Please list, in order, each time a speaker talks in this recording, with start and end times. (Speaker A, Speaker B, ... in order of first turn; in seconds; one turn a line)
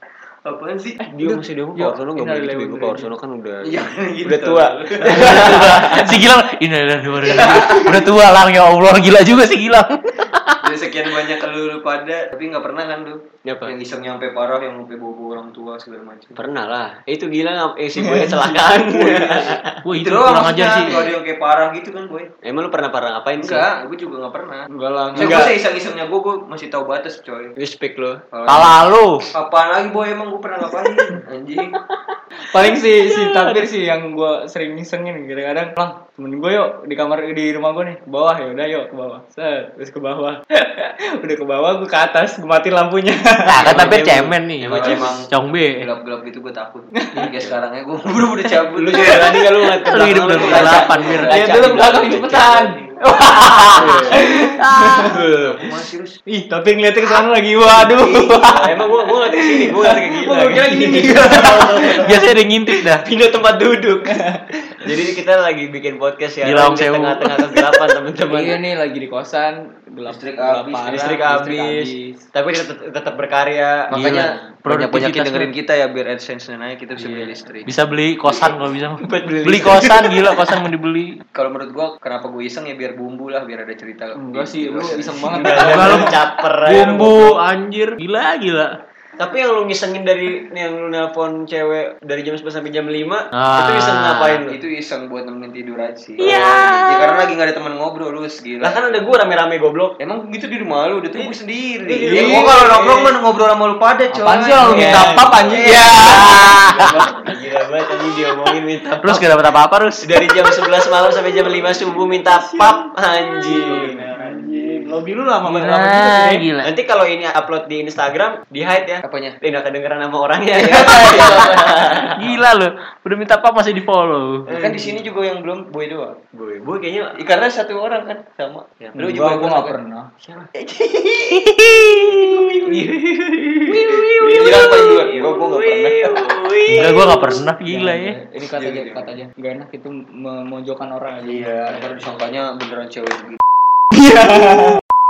Speaker A: 0.5-1.1
Speaker B: 1.0-3.1
Speaker C: 1.1-6.2
Speaker A: 3.6-5.9
Speaker D: 5.1-10.6
Speaker A: 7.3-8.0
Speaker A: 10.6-16.4
Speaker C: 13.4-13.7
Speaker C: 16.4-19.8
Speaker B: 18.0-18.3
Speaker A: 18.8-22.3
Speaker D: 19.8-21.0
Speaker C: 22.4-23.7
Speaker A: 23.4-27.5
Speaker B: 24.7-25.5
Speaker C: 25.2-25.5
Speaker C: 27.6-28.2
Speaker A: 28.3-28.8
Speaker D: 28.5-29.3
Speaker A: 29.3-31.7
Speaker B: 32.4-43.9
Speaker D: 32.7-33.7
Speaker D: 43.5-45.9
Speaker C: 43.6-45.2
Speaker A: 44.7-49.4
Speaker B: 47.0-47.2
Speaker C: 47.2-47.5
Speaker C: 48.8-52.8
Speaker D: 49.8-51.4
Speaker A: 50.2-51.8
Speaker B: 51.3-55.1
Speaker C: 53.8-55.6
Speaker A: 53.8-54.1
Speaker A: 55.1-56.2
Speaker B: 56.3-58.8
Speaker A: 57.7-59.0
Speaker C: 58.5-62.2
Speaker B: 59.3-62.2
Speaker D: 61.9-63.0
Speaker C: 63.0-64.1
Speaker B: 64.1-64.4
Speaker C: 64.8-68.6
Speaker D: 66.4-67.7
Speaker B: 68.3-72.2
Speaker A: 70.1-71.0
Speaker C: 70.9-74.2
Speaker A: 73.9-77.7
Speaker D: 73.9-75.5
Speaker D: 77.7-81.2
Speaker C: 79.0-80.4
Speaker A: 81.3-86.1
Speaker B: 84.2-86.1
Speaker C: 85.3-87.4
Speaker D: 85.6-88.8
Speaker C: 89.2-94.6
Speaker D: 93.3-94.5
Speaker A: 94.5-99.1
Speaker D: 96.2-97.3
Speaker C: 96.2-96.8
Speaker C: 98.6-100.0
Speaker A: 100.0-106.5
Speaker D: 102.0-102.4
Speaker B: 102.0-102.9
Speaker B: 104.1-105.9
Speaker C: 104.6-109.4
Speaker D: 105.6-107.0
Speaker D: 109.0-110.8
Speaker C: 110.0-114.0
Speaker B: 113.4-116.5
Speaker D: 113.5-114.5
Speaker D: 115.4-116.7
Speaker C: 116.6-122.3
Speaker A: 119.0-119.4
Speaker A: 120.6-121.6
Speaker D: 120.9-121.5
Speaker D: 122.1-124.5
Speaker C: 124.5-125.0
Speaker A: 124.5-126.2
Speaker C: 126.3-127.2
Speaker A: 127.2-129.8
Speaker B: 129.1-130.1
Speaker A: 130.6-131.4
Speaker D: 131.2-132.5
Speaker A: 132.3-132.9
Speaker A: 133.7-136.3
Speaker C: 133.7-137.4
Speaker D: 133.8-134.8
Speaker D: 136.7-138.2
Speaker B: 137.6-141.9
Speaker A: 138.6-139.2
Speaker A: 141.2-143.4
Speaker B: 143.9-144.8